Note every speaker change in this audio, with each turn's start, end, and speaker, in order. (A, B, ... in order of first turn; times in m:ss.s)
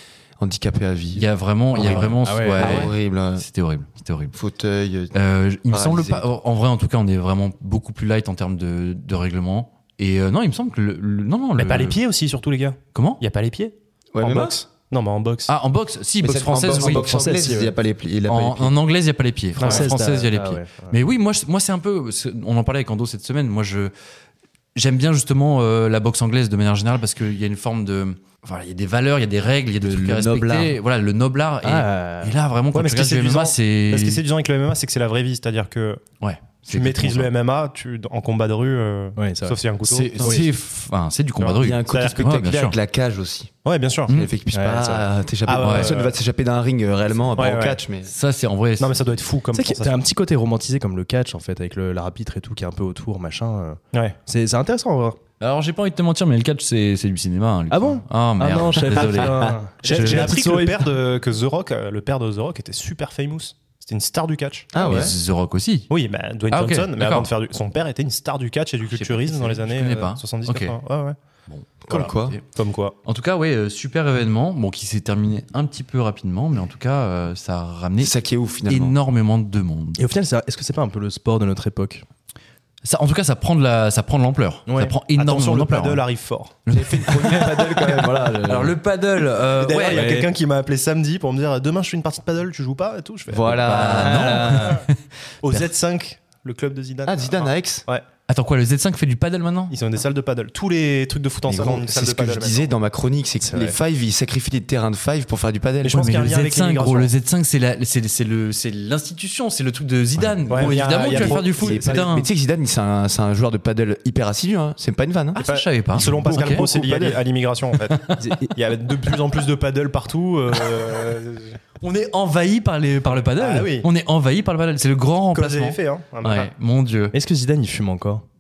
0:00.4-0:03.4 A
0:01.2-0:04.4 B
0:01.8-0:02.9 C
0:04.3-0:05.2 A
0:05.1-0:12.0 B
0:05.7-0:06.3 A
0:11.6-0:15.5 D
0:13.0-0:13.2 B
0:14.1-0:14.6 A
0:15.5-0:17.2 B
0:16.2-0:18.8 A
0:16.7-0:17.7 C
0:18.3-0:23.9 B
0:19.6-0:19.9 D
0:19.6-0:20.9 C
0:24.8-0:34.2 B
0:29.9-0:30.8 C
0:31.6-0:32.4 C
0:32.7-0:36.0 D
0:36.2-0:37.3 B
0:36.6-0:40.5 D
0:39.2-0:39.6 C
0:39.8-0:42.8 B
0:40.2-0:40.5 C
0:41.4-0:42.4 D
0:41.6-0:43.5 A
0:43.6-0:44.1 D
0:44.1-0:48.1 A
0:44.5-0:45.1 C
0:45.5-0:46.2 D
0:45.6-0:46.0 B
0:47.4-0:47.8 D
0:48.0-0:49.1 B
0:48.8-0:50.0 D
0:49.5-0:55.2 C
0:55.4-0:59.4 B
0:57.7-1:00.8 C
0:59.8-1:04.7 D
0:59.9-1:00.4 B
1:04.7-1:05.1 A
1:04.8-1:05.9 B
1:05.9-1:11.2 D
1:06.5-1:07.3 B
1:08.8-1:10.8 B
1:11.5-1:12.4 B
1:11.9-1:12.4 A
1:11.9-1:13.0 D
1:13.0-1:18.1 B
1:18.0-1:19.0 A
1:18.7-1:20.0 B
1:20.0-1:22.0 C
1:22.8-1:26.0 B
1:25.0-1:26.6 D
1:26.7-1:30.2 B
1:26.7-1:28.8 A
1:29.6-1:34.7 D
1:29.9-1:30.3 C
1:33.3-1:34.8 A
1:33.6-1:35.0 B
1:35.4-1:38.0 D
1:37.1-1:37.8 A
1:38.3-1:39.7 B
1:39.7-1:42.7 D
1:41.5-1:46.1 A
1:43.4-1:43.8 C
1:45.8-1:47.1 D
1:46.0-1:52.3 B
1:50.2-1:55.4 A
1:50.5-1:52.0 D
1:55.4-1:56.6 B
1:55.4-2:01.6 D
1:56.2-1:57.2 A
1:58.2-1:58.5 C
2:01.8-2:07.1 B
2:03.4-2:03.9 D
2:05.3-2:06.5 D
2:07.1-2:08.2 C